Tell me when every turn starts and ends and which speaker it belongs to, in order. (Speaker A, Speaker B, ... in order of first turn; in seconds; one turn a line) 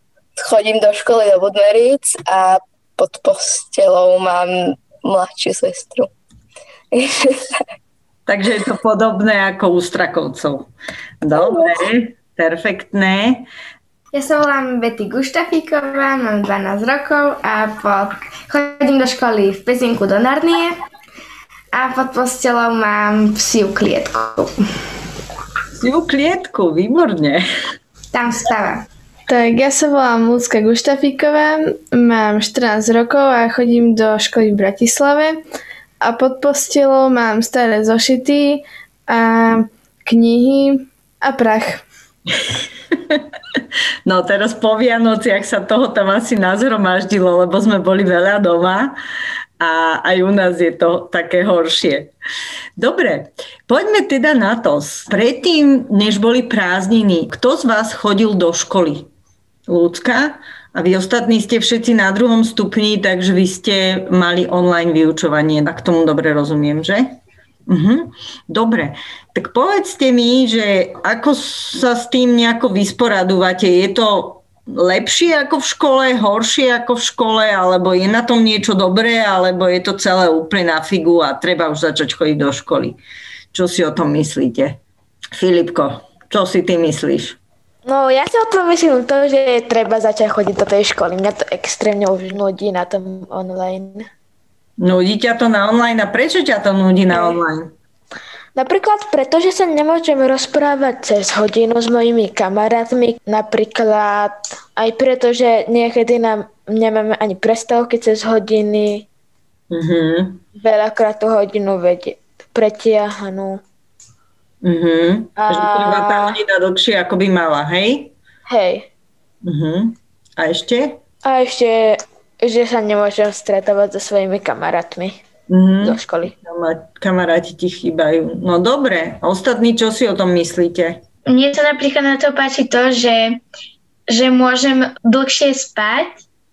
Speaker A: 0.4-6.1
Speaker A: 7.0-7.4
Speaker B: 8.3-10.7
Speaker B: 11.2-13.5
Speaker C: 14.1-20.8
Speaker C: 21.7-24.6
Speaker B: 25.8-27.4
Speaker C: 28.1-28.9
Speaker D: 29.3-35.4
Speaker D: 36.0-41.8
Speaker B: 42.9-43.2
Speaker B: 44.1-49.0
Speaker B: 49.6-52.1
Speaker B: 52.8-59.1
Speaker B: 59.7-67.1
Speaker B: 67.7-83.0
Speaker B: 83.5-84.8
Speaker B: 85.4-87.4
Speaker E: 87.9-94.1
Speaker B: 94.8-97.7
Speaker E: 97.1-97.4
Speaker E: 98.5-109.1
Speaker B: 109.7-110.4
Speaker E: 110.6-113.6
Speaker B: 114.6-118.1
Speaker E: 115.4-116.4
Speaker E: 118.5-118.9
Speaker B: 119.4-121.0
Speaker E: 121.2-125.2
Speaker B: 125.5-131.0
Speaker E: 125.8-126.3
Speaker F: 131.3-133.4
Speaker F: 134.1-136.2